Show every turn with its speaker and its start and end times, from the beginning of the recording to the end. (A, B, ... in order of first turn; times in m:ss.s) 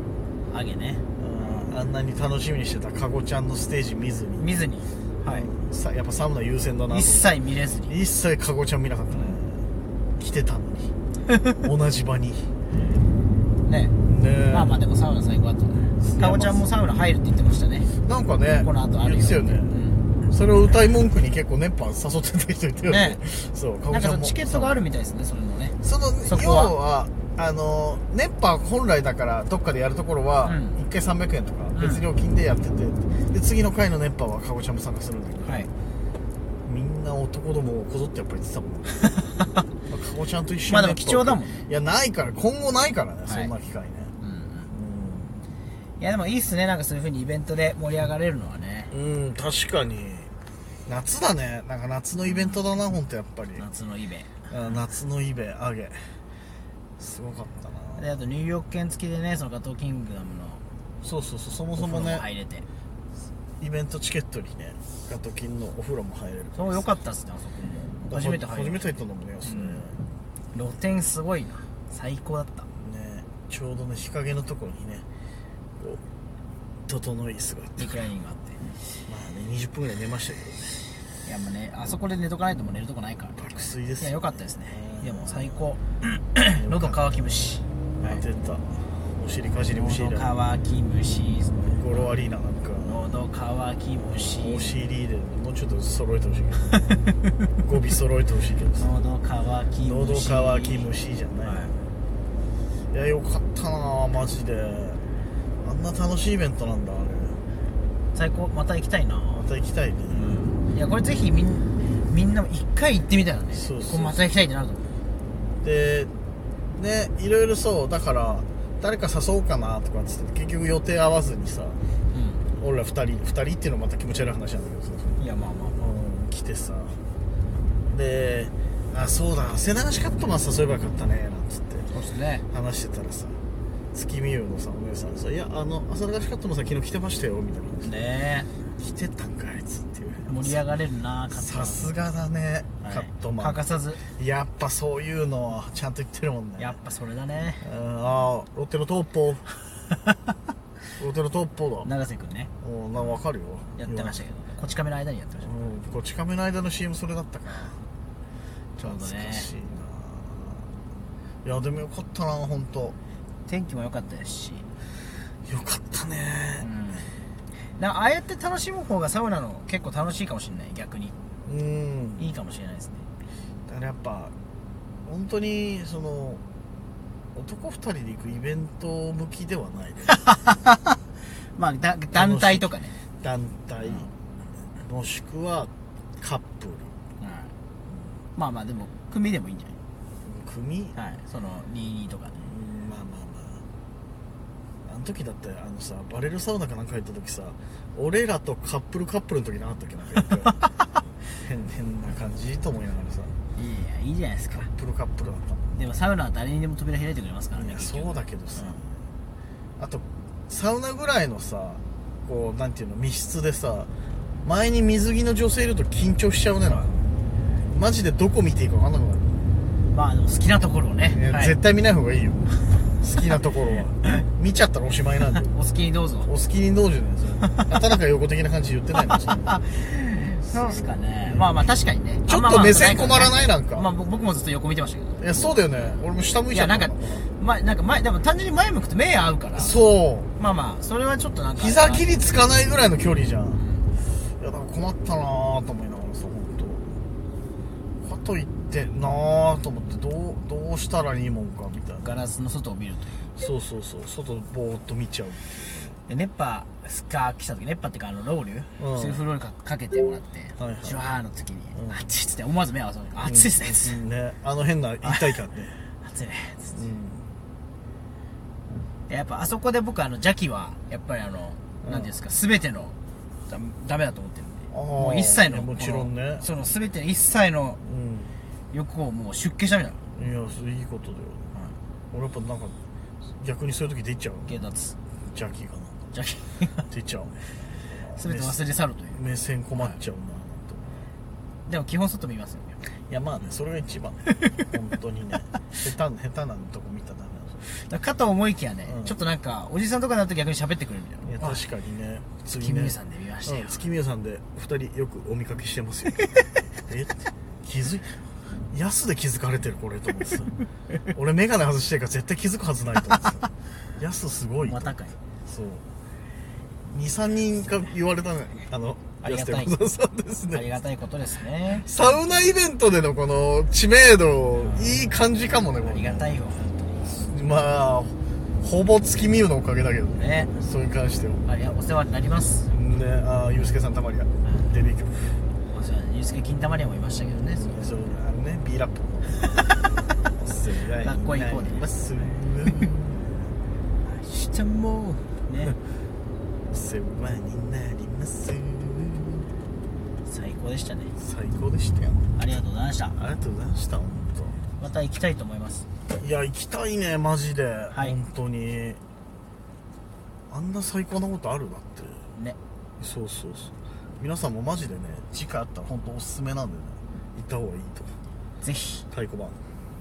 0:00.5-0:01.8 A
0:01.2-0:04.6 B
0:04.4-0:05.5 A
0:05.3-0:07.3 B
0:06.9-0:07.9 A
0:07.9-0:10.9 B
0:09.1-0:09.4 A
0:11.6-0:12.5 B
0:13.6-0:13.9 A
0:14.0-0:14.8 B
0:14.5-0:17.9 A
0:16.0-0:16.7 B
0:18.0-0:24.8 B
0:18.6-0:20.1 A
0:22.8-0:23.2 A
0:23.9-0:26.7 A
0:25.8-0:35.7 B
0:30.4-0:30.8 A
0:31.7-0:32.0 A
0:35.4-0:35.7 A
0:36.6-0:39.0 B
0:39.8-0:44.1 B
0:40.7-0:41.6 A
0:43.2-0:43.5 A
0:44.2-0:44.7 A
0:44.7-0:45.4 B
0:46.0-0:48.9 A
0:48.9-0:50.3 B
0:50.9-0:53.6 B
0:52.2-0:52.6 A
0:53.6-0:54.5 A
0:54.5-0:56.2 B
0:57.0-0:58.1 B
0:58.0-1:00.6 A
1:01.0-1:02.2 B
1:01.8-1:02.6 A
1:03.6-1:06.8 B
1:06.5-1:08.8 A
1:08.0-1:10.0 B
1:09.4-1:09.9 A
1:10.5-1:12.7 A
1:12.8-1:15.0 B
1:16.9-1:18.0 B
1:17.8-1:18.7 A
1:19.0-1:20.6 B
1:21.2-1:23.4 A
1:23.4-1:25.7 B
1:24.0-1:28.2 A
1:26.5-1:27.3 B
1:28.0-1:30.3 B
1:29.7-1:32.0 A
1:31.6-1:33.0 B
1:32.8-1:34.8 A
1:34.3-1:36.8 B
1:37.6-1:38.9 B
1:38.7-1:40.9 A
1:39.8-1:41.7 B
1:41.4-1:41.8 A
1:42.9-1:45.0 B
1:45.6-1:47.4 B
1:48.1-1:49.5 A
1:49.3-1:50.5 B
1:50.1-1:54.9 A
1:53.5-1:54.2 B
1:55.6-1:56.1 B
1:56.7-2:01.8 B
2:02.1-2:02.4 A
2:02.6-2:05.2 B
2:05.2-2:05.9 A
2:05.8-2:07.0 B
2:07.9-2:11.9 B
2:11.9-2:12.4 A
2:12.5-2:13.4 B
2:13.9-2:17.9 B
2:17.8-2:18.5 A
2:18.8-2:20.6 B
2:20.2-2:21.9 A
2:21.3-2:23.6 B
2:22.8-2:24.0 A
2:24.2-2:26.8 B
2:26.6-2:27.6 A
2:27.6-2:29.4 B
2:31.0-2:31.9 B
2:31.8-2:33.1 A
2:32.6-2:34.2 B
2:33.8-2:35.7 A
2:35.4-2:37.8 B
2:38.8-2:39.5 A
2:38.8-2:40.7 B
2:41.4-2:42.9 B
2:43.4-2:44.7 A
2:45.4-2:46.7 B
2:46.6-2:47.1 A
2:47.8-2:51.1 A
2:51.4-2:52.2 B
2:52.2-2:53.1 A
2:53.7-2:54.3 B
2:55.0-2:56.4 B
2:57.3-3:00.2 B
3:00.0-3:03.0 A
3:02.1-3:04.1 B
3:04.8-3:06.9 B
3:07.2-3:07.5 A
3:08.4-3:09.8 A
3:10.2-3:11.0 B
3:10.9-3:12.4 A
3:12.3-3:13.6 B
3:14.8-3:20.6 B
3:21.3-3:23.3 B
3:23.5-3:24.7 A
3:24.5-3:25.7 B
3:25.7-3:28.8 A
3:27.6-3:29.0 B
3:29.8-3:33.9 B
3:34.4-3:37.0 B
3:37.7-3:39.4 B
3:39.9-3:41.6 A
3:41.1-3:42.4 B
3:43.0-3:45.5 B
3:45.4-3:46.3 A
3:46.2-3:49.6 B
3:49.3-3:55.9 A
3:50.4-3:51.5 B
3:52.2-3:53.9 B
3:55.2-3:57.2 B
3:56.5-3:59.8 A
3:59.5-4:00.3 B
4:00.4-4:02.4 A
4:01.6-4:03.6 B
4:03.6-4:03.9 A
4:04.4-4:06.9 B
4:08.0-4:12.2 B
4:12.0-4:13.4 A
4:13.4-4:16.0 B
4:16.1-4:24.0 A
4:18.8-4:19.2 B
4:20.6-4:21.0 B
4:23.2-4:25.8 B
4:25.0-4:25.4 A
4:26.0-4:26.8 A
4:26.7-4:27.3 B
4:29.1-4:33.0 A
4:31.8-4:32.1 B
4:33.5-4:37.8 A
4:34.7-4:36.5 B
4:37.8-4:38.3 B
4:38.7-4:40.0 A
4:40.1-4:41.5 B
4:42.1-4:42.7 B
4:43.4-4:44.6 B
4:44.4-4:44.9 A
4:45.2-4:46.0 B
4:46.1-4:46.8 A
4:46.9-4:48.6 B
4:48.1-4:49.2 A
4:49.1-4:51.1 B
4:51.7-4:52.8 A
4:53.0-4:57.6 B
4:57.6-5:01.6 A
4:58.8-4:59.1 B
5:01.2-5:06.3 B
5:02.6-5:03.8 A
5:06.8-5:08.2 B
5:08.7-5:10.5 B
5:11.1-5:15.8 B
5:14.6-5:15.2 A
5:16.9-5:20.6 B
5:19.2-5:19.8 A
5:20.5-5:21.9 A
5:21.8-5:26.3 B
5:24.5-5:25.0 A
5:25.7-5:27.2 A
5:27.0-5:31.4 B
5:30.2-5:30.5 A
5:31.4-5:32.7 A
5:32.7-5:35.4 B
5:35.7-5:37.9 A
5:37.3-5:39.5 B
5:40.3-5:43.4 B
5:41.0-5:42.3 A
5:44.0-5:45.8 A
5:46.7-5:49.5 B
5:50.2-5:51.1 A
5:51.2-5:52.3 B
5:52.4-5:53.2 A
5:53.1-5:54.6 B
5:54.8-5:55.9 A
5:56.2-5:59.0 B
5:57.9-5:58.2 A
6:00.5-6:02.2 B
6:03.0-6:08.2 B
6:08.6-6:09.0 A
6:09.1-6:09.6 B